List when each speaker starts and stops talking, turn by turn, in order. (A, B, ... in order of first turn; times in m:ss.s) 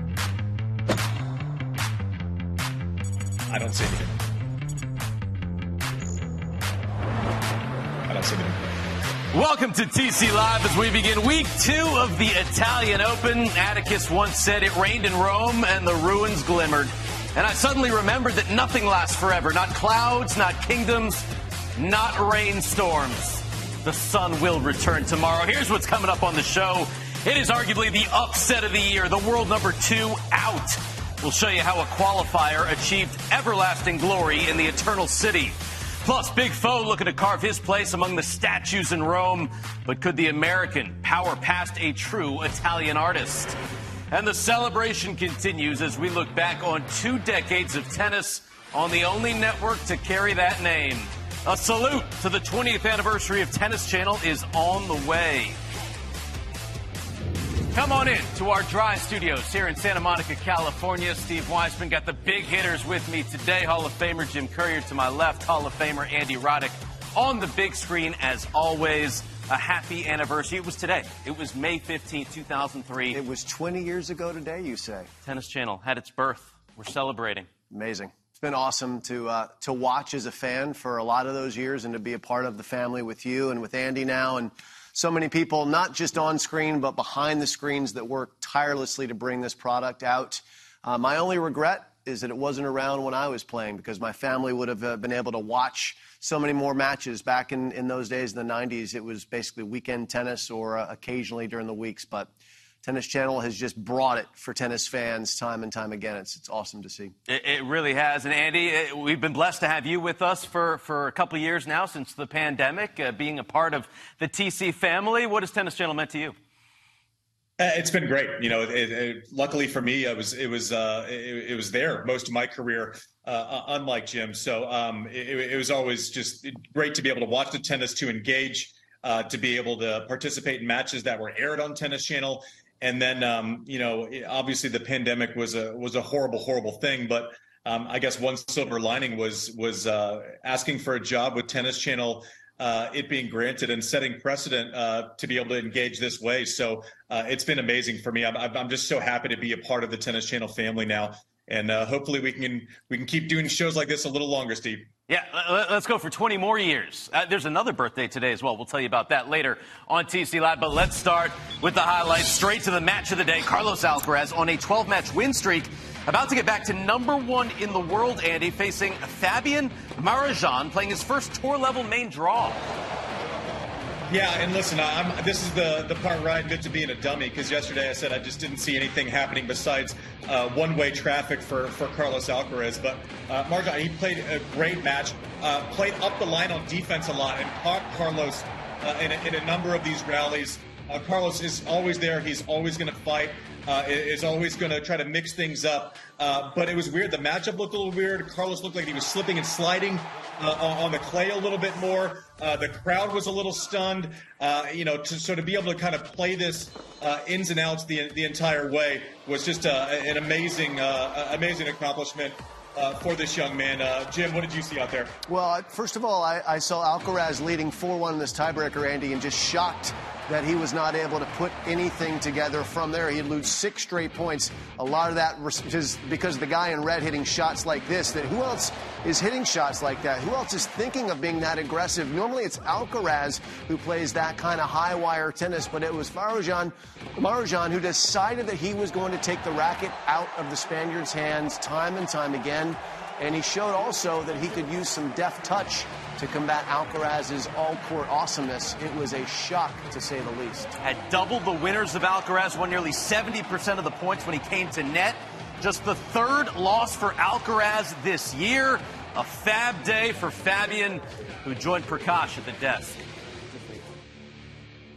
0:03.5-0:04.1 A
0:08.0-0:08.7 A
0:09.3-0:43.6 B
0:44.1-0:55.6 B
0:57.7-1:13.2 B
1:13.1-1:15.1 C
1:15.2-1:17.5 B
1:17.7-1:42.3 C
1:42.8-1:47.1 C
1:47.3-1:56.3 B
1:57.6-2:34.9 A
2:35.1-2:52.6 B
2:54.1-3:35.2 A
3:35.3-4:10.7 C
4:10.8-4:23.0 B